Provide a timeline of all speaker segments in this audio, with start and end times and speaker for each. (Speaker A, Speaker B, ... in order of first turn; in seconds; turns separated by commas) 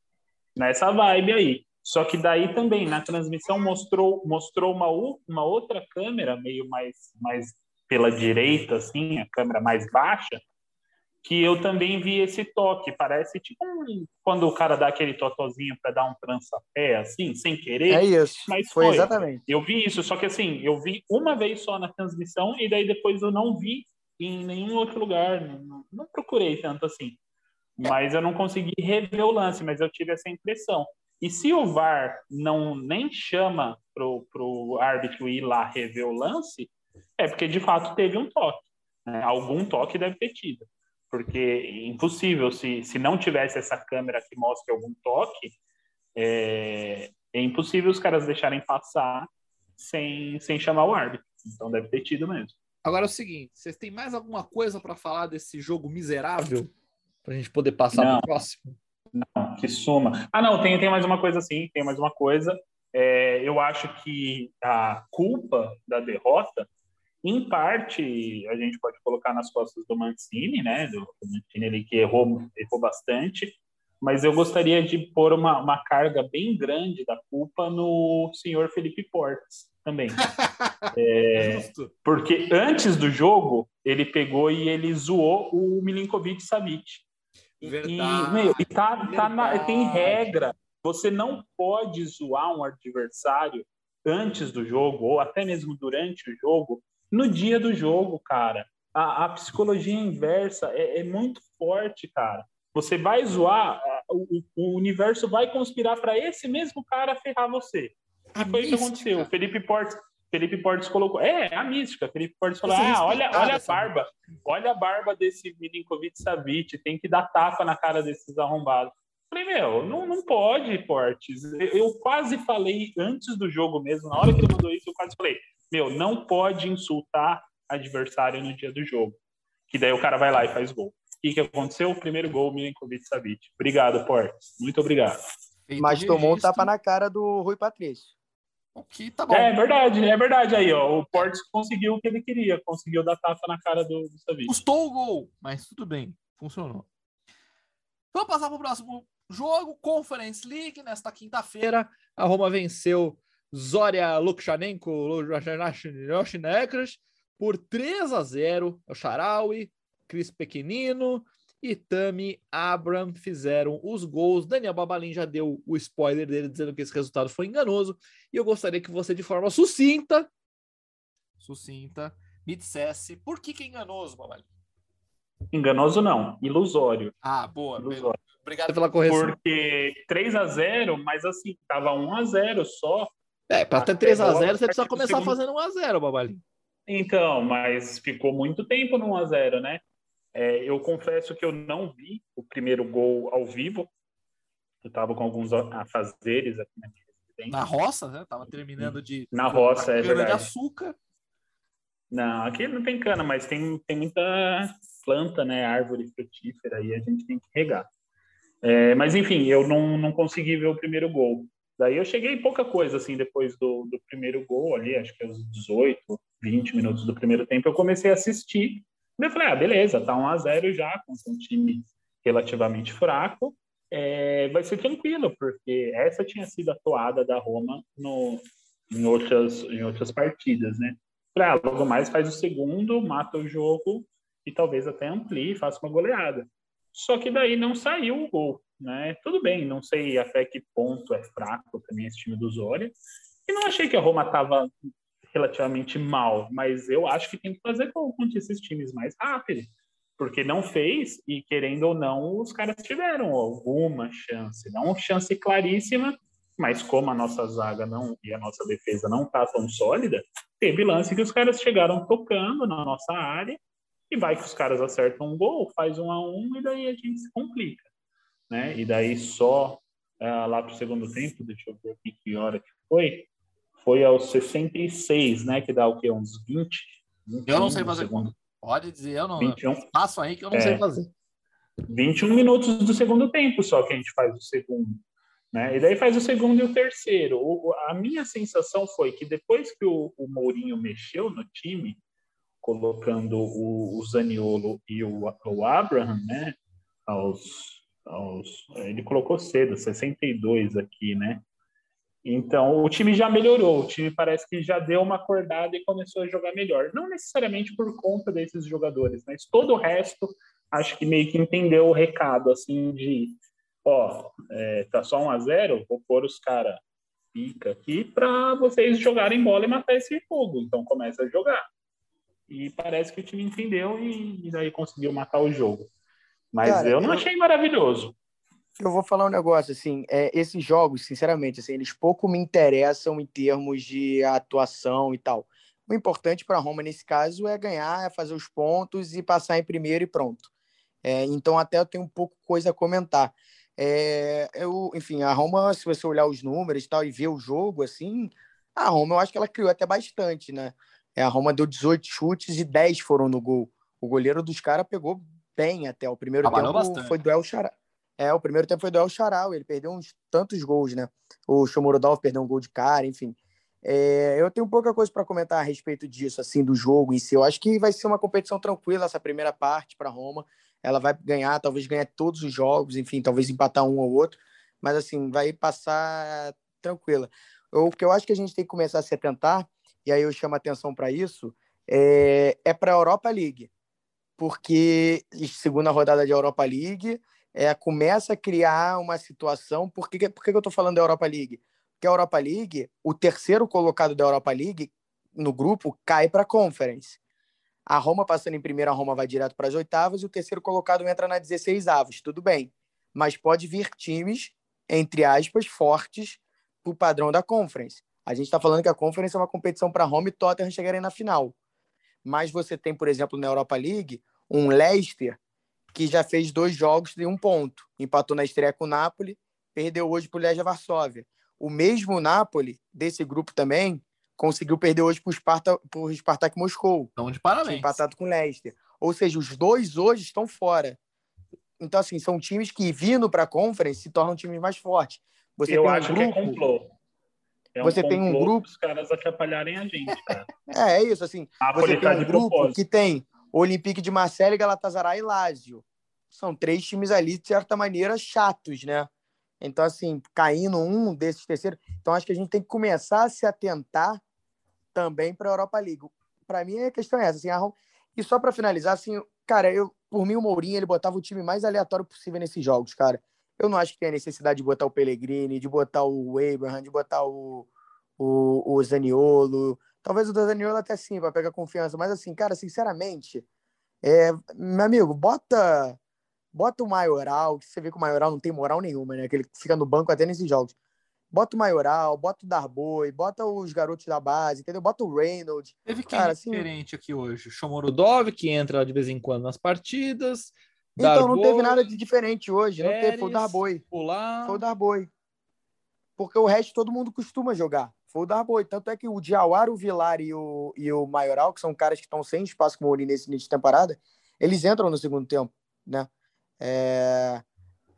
Speaker A: 0.6-10.4, Speaker A: 11.2-27.2, Speaker B: 17.9-19.4, Speaker A: 27.8-45.5, Speaker A: 46.2-52.5, Speaker C: 52.8-56.7, Speaker C: 57.2-58.8, Speaker A: 57.9-58.3, Speaker A: 59.1-66.7, Speaker A: 67.2-80.2, Speaker C: 80.3-81.9, Speaker A: 80.9-87.0, Speaker C: 87.6-90.4, Speaker A: 87.8-135.2, Speaker C: 108.3-109.3, Speaker C: 112.7-113.9, Speaker C: 135.7-136.7, Speaker B: 135.8-138.1, Speaker C: 138.8-139.5, Speaker A: 139.3-144.6, Speaker C: 144.5-146.9, Speaker C: 148.1-170.3, Speaker C: 171.4-174.5, Speaker A: 175.5-177.2, Speaker C: 177.2-179.4, Speaker A: 177.8-178.2, Speaker A: 179.1-183.1, Speaker C: 183.5-186.4, Speaker A: 183.8-185.4, Speaker A: 186.9-189.8, Speaker A: 190.3-193.9, Speaker A: 194.8-197.7, Speaker C: 197.5-201.0, Speaker A: 198.8-200.5, Speaker A: 202.1-207.9, Speaker A: 208.6-244.7, Speaker A: 245.3-263.6, Speaker A: 264.1-267.9, Speaker A: 268.5-273.3, Speaker A: 273.8-278.3, Speaker C: 277.5-281.1, Speaker A: 279.4-279.9, Speaker A: 280.5-280.8, Speaker A: 281.9-292.0, Speaker A: 292.6-296.6, Speaker A: 297.1-301.4, Speaker A: 302.2-316.8, Speaker A: 317.3-321.6, Speaker A: 322.5-325.9, Speaker A: 326.5-328.1, Speaker B: 326.6-327.2, Speaker B: 328.8-340.5, Speaker B: 341.0-383.7, Speaker C: 356.4-357.2, Speaker B: 384.4-397.2, Speaker B: 397.9-411.6, Speaker B: 412.2-415.4, Speaker B: 415.9-427.1, Speaker C: 427.2-428.0, Speaker B: 427.6-431.0, Speaker B: 431.8-436.6, Speaker A: 435.7-436.9, Speaker A: 437.8-440.5, Speaker B: 437.8-438.6, Speaker B: 440.7-449.1, Speaker A: 441.6-442.8, Speaker B: 449.6-454.2, Speaker B: 454.9-473.4, Speaker B: 474.0-476.0, Speaker B: 476.5-480.7, Speaker B: 481.3-486.7, Speaker C: 485.9-491.8, Speaker B: 491.0-493.8, Speaker C: 492.8-494.6, Speaker B: 494.4-495.1, Speaker B: 496.2-506.1, Speaker B: 506.6-507.4